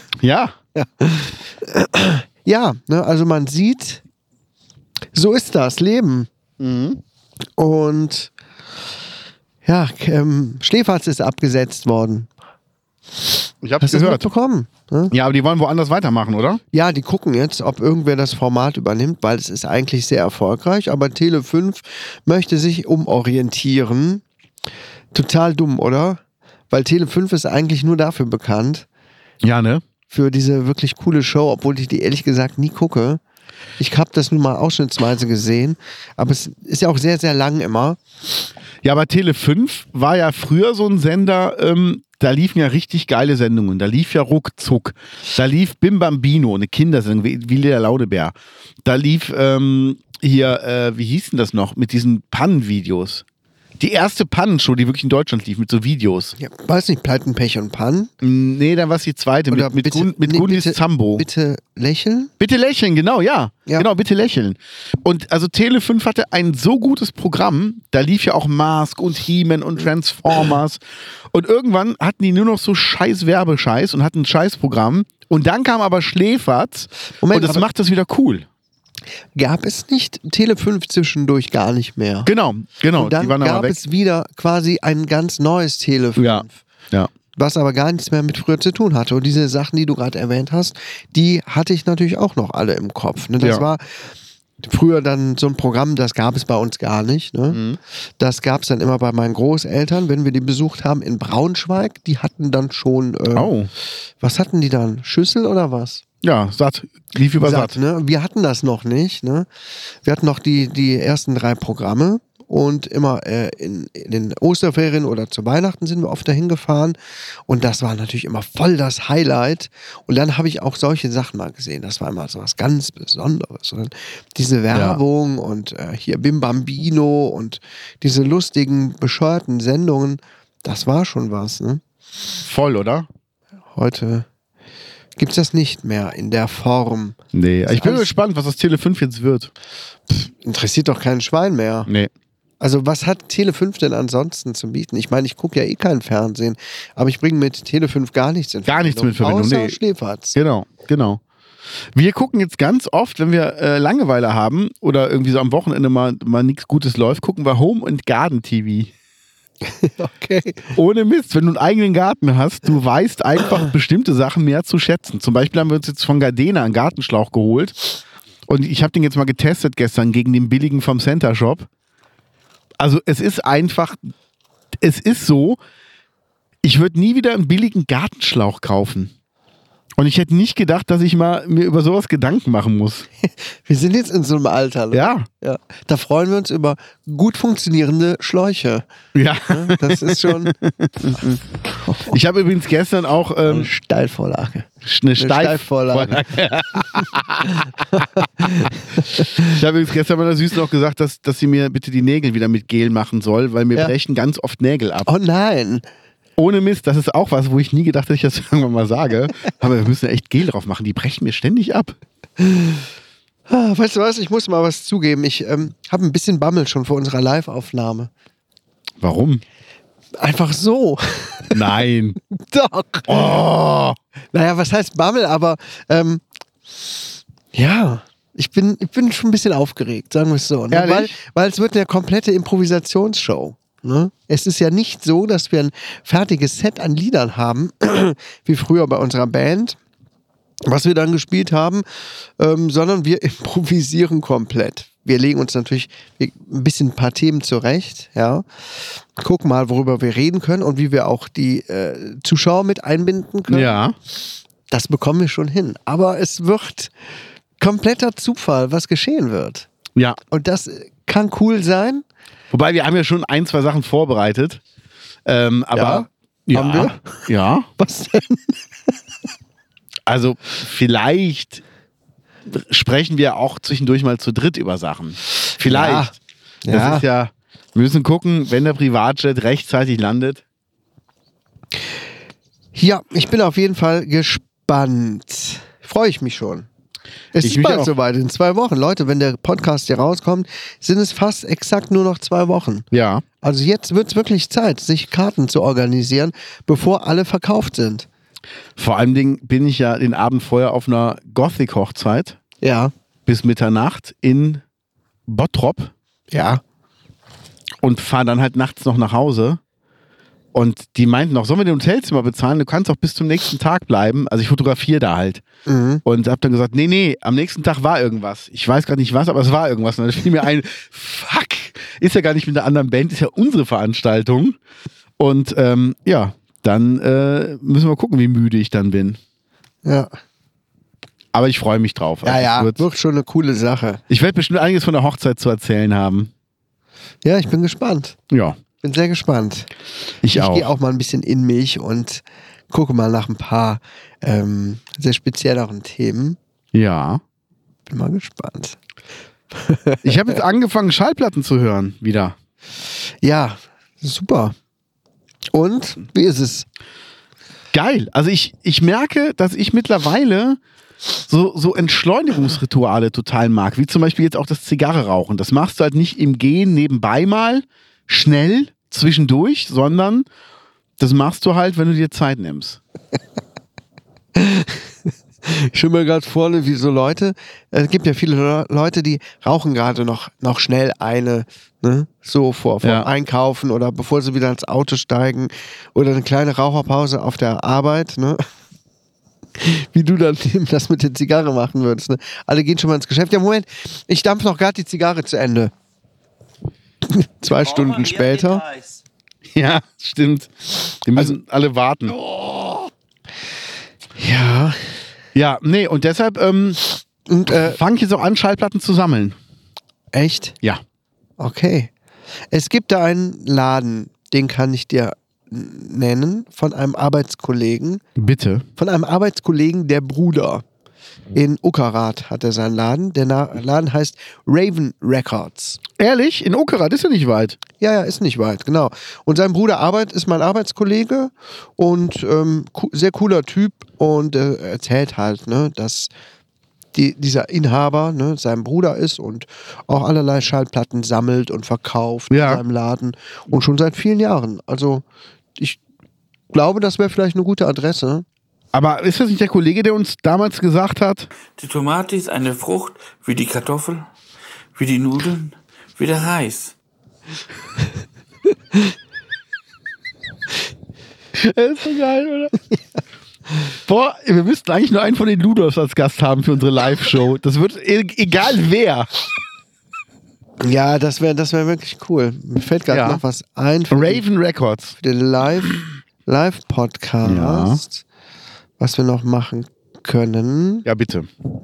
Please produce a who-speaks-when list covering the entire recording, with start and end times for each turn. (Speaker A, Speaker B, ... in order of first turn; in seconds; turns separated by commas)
Speaker A: 0.2-0.6, Speaker B: 0.8-4.0, Speaker B: 5.1-6.3, Speaker A: 6.6-7.0, Speaker B: 7.6-8.3, Speaker B: 9.6-12.3, Speaker A: 13.6-14.2, Speaker B: 13.8-15.1, Speaker A: 15.1-16.6, Speaker B: 16.7-24.2, Speaker B: 25.1-28.9, Speaker A: 29.4-29.8, Speaker B: 30.1-33.2, Speaker B: 33.8-38.0, Speaker A: 38.8-53.2, Speaker A: 53.8-56.3, Speaker B: 56.4-58.1, Speaker A: 58.2-61.2, Speaker B: 59.5-62.3, Speaker A: 62.4-78.5, Speaker B: 77.2-77.6, Speaker B: 79.3-82.3, Speaker A: 82.2-83.8, Speaker B: 83.0-86.6, Speaker A: 86.2-87.1, Speaker B: 87.3-94.1, Speaker B: 94.6-97.6, Speaker A: 97.5-97.8, Speaker B: 98.2-103.5, Speaker A: 103.3-103.7, Speaker B: 104.2-106.0, Speaker A: 106.2-107.8, Speaker B: 107.4-109.5, Speaker B: 110.0-117.0, Speaker B: 117.5-131.8, Speaker A: 124.7-125.0, Speaker A: 132.4-133.1, Speaker B: 133.7-134.3, Speaker B: 135.2-138.1, Speaker A: 137.3-139.5, Speaker B: 140.1-141.9, Speaker B: 142.6-150.3, Speaker A: 148.7-149.8, Speaker A: 150.3-151.2, Speaker A: 151.9-158.9, Speaker B: 159.6-160.7, Speaker A: 160.7-167.8, Speaker A: 168.5-171.7, Speaker A: 172.8-174.0, Speaker A: 174.8-175.6, Speaker A: 176.6-179.1, Speaker A: 180.0-183.1, Speaker B: 183.2-188.8, Speaker A: 184.9-185.3, Speaker A: 189.1-191.4, Speaker B: 189.4-190.6, Speaker B: 191.8-192.1, Speaker A: 192.0-193.7, Speaker B: 193.4-196.3, Speaker A: 194.8-198.7, Speaker B: 197.6-199.6, Speaker A: 199.4-205.1, Speaker B: 205.1-205.8, Speaker A: 206.4-211.9, Speaker B: 212.4-212.8, Speaker B: 213.5-218.1, Speaker A: 219.0-219.4, Speaker B: 220.2-221.6, Speaker A: 221.5-222.2, Speaker B: 222.2-223.3, Speaker A: 223.1-224.0, Speaker B: 224.3-226.2, Speaker B: 227.5-239.8, Speaker A: 230.7-231.1, Speaker B: 240.7-241.8, Speaker B: 242.4-253.8, Speaker A: 253.5-253.9, Speaker B: 254.7-256.9, Speaker B: 257.6-259.7, Speaker B: 260.3-262.0, Speaker A: 262.5-264.6, Speaker A: 265.2-267.7, Speaker B: 265.7-267.2, Speaker B: 267.8-268.5, Speaker A: 270.1-271.6, Speaker A: 272.5-276.1, Speaker B: 275.6-277.1, Speaker A: 276.7-280.4, Speaker B: 282.7-286.7, Speaker B: 287.3-292.9, Speaker A: 287.4-287.9, Speaker A: 292.9-293.2, Speaker B: 293.4-298.1, Speaker A: 298.8-302.4, Speaker B: 302.6-302.9, Speaker A: 303.2-304.6, Speaker A: 305.3-305.9, Speaker B: 306.3-306.6, Speaker A: 307.8-309.6, Speaker A: 310.5-315.4, Speaker B: 315.6-316.0, Speaker A: 316.0-324.6, Speaker A: 325.2-329.2, Speaker B: 329.8-330.1, Speaker A: 331.3-332.8, Speaker B: 332.2-334.0, Speaker A: 334.1-336.3, Speaker B: 337.2-338.2, Speaker A: 338.3-338.6, Speaker B: 338.8-339.7, Speaker A: 340.2-340.7, Speaker B: 340.3-346.4, Speaker A: 346.7-347.2, Speaker B: 347.9-348.8, Speaker B: 349.5-350.4, Speaker A: 350.0-352.3, Speaker B: 353.2-354.5, Speaker B: 355.5-356.7, Speaker A: 357.7-360.6, Speaker A: 361.2-370.3, Speaker A: 371.0-372.8, Speaker B: 374.4-374.8, Speaker B: 375.4-388.4, Speaker A: 382.8-383.1, Speaker B: 389.6-395.7, Speaker B: 397.0-398.8, Speaker A: 399.5-402.1, Speaker B: 404.2-404.9, Speaker A: 405.3-406.8, Speaker B: 407.3-407.8, Speaker A: 407.5-409.4, Speaker B: 410.1-410.6, Speaker B: 411.4-411.9, Speaker B: 412.5-418.0, Speaker A: 418.1-418.6, Speaker B: 418.8-420.6, Speaker B: 421.3-425.8, Speaker A: 426.0-427.6, Speaker B: 427.8-436.1, Speaker B: 436.9-445.0, Speaker A: 442.3-442.6, Speaker B: 446.5-448.2, Speaker A: 448.7-451.3, Speaker C: 451.6-454.1, Speaker C: 454.7-456.7, Speaker A: 461.3-462.6, Speaker A: 463.9-469.1, Speaker B: 470.6-474.2, Speaker A: 472.9-473.2, Speaker A: 473.9-475.0, Speaker B: 475.0-478.0, Speaker A: 477.2-477.8, Speaker B: 478.8-480.9, Speaker A: 480.8-481.3